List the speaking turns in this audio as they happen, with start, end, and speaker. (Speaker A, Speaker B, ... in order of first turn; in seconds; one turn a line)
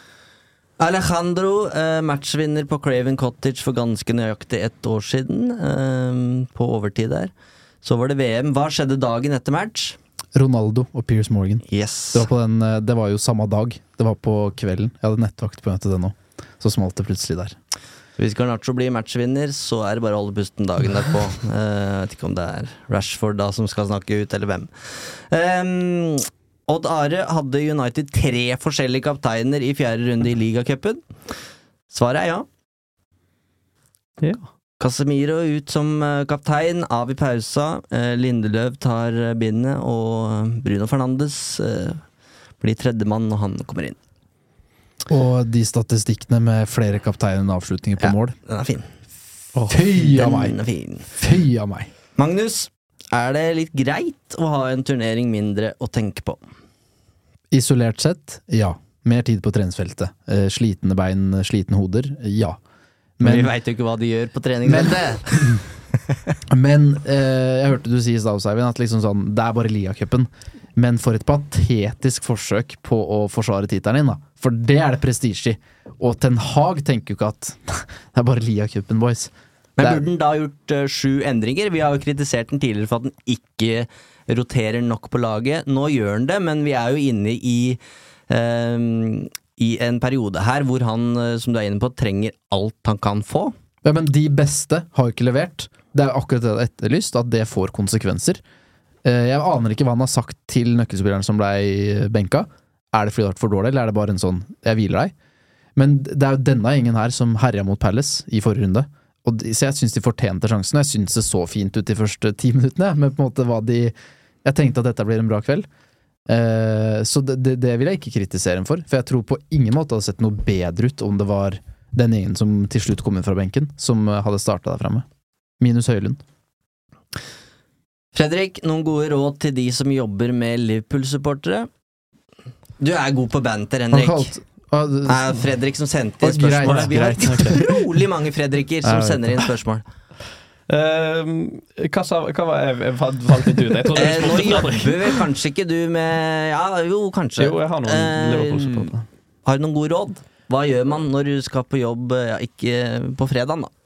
Speaker A: 0.8-7.3
Speaker A: 7.8-10.0
Speaker B: 10.3-17.6
Speaker A: 11.7-12.3
Speaker A: 18.2-31.1
Speaker A: 31.9-32.5
Speaker A: 34.8-42.0
Speaker A: 42.6-44.0
Speaker B: 45.1-48.4
Speaker A: 48.0-48.9
Speaker B: 49.7-51.9
Speaker A: 50.0-51.1
Speaker A: 52.2-56.4
Speaker B: 57.5-62.6
Speaker B: 63.2-63.5
Speaker A: 63.2-65.7
Speaker B: 64.7-65.6
Speaker B: 66.5-80.0
Speaker A: 79.8-93.5
Speaker B: 93.8-98.4
Speaker B: 99.0-105.1
Speaker B: 105.8-115.7
Speaker B: 116.3-125.1
Speaker B: 125.6-126.2
Speaker A: 128.1-131.7
Speaker A: 132.8-134.3
Speaker B: 133.9-135.5
Speaker A: 135.1-139.8
Speaker B: 136.2-137.8
Speaker C: 136.7-137.6
Speaker B: 138.8-139.4
Speaker C: 140.7-145.2
Speaker A: 143.9-148.9
Speaker C: 147.4-149.1
Speaker A: 149.4-153.7